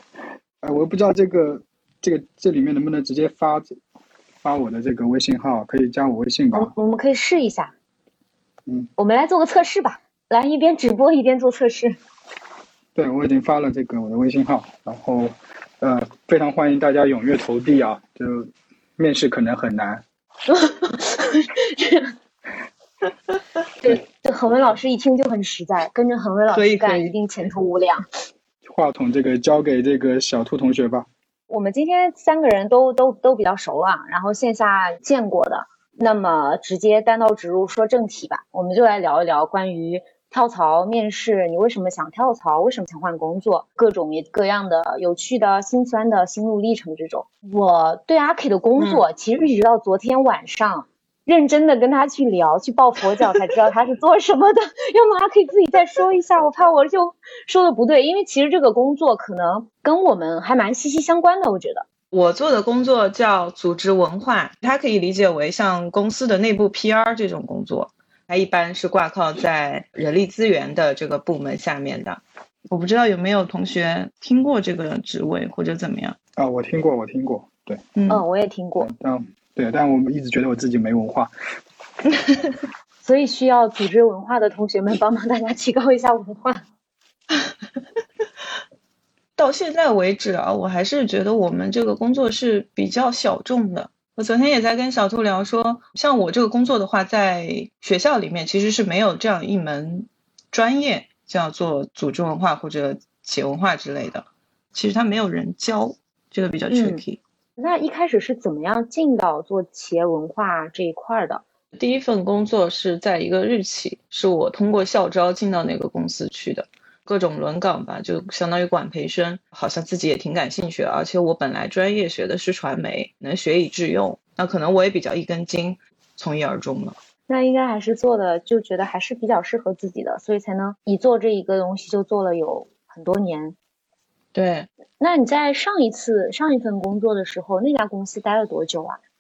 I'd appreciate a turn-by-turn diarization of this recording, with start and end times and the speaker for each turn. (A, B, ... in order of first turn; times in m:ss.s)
0:00.6-0:03.8 A
0:04.4-0:06.7 A
0:06.5-0:07.7 B
0:09.0-0:12.0 B
0:13.0-0:20.0 A
0:20.5-0:22.1 B
0:23.8-0:28.0 B
0:26.5-0:27.2 C
0:28.7-0:31.1 A
0:31.5-1:01.8 B
0:48.8-0:49.0 C
1:02.1-1:16.2 C
1:16.4-1:17.8 A
1:18.0-1:18.2 C
1:18.1-1:18.9 B
1:18.8-1:21.3 A
1:23.0-1:26.6 B
1:29.4-1:47.2 C
1:46.7-1:47.0 B
1:47.6-1:51.4 B
1:51.8-2:07.0 C
2:07.3-2:13.6 B
2:14.3-2:14.7 C
2:15.0-2:19.0 B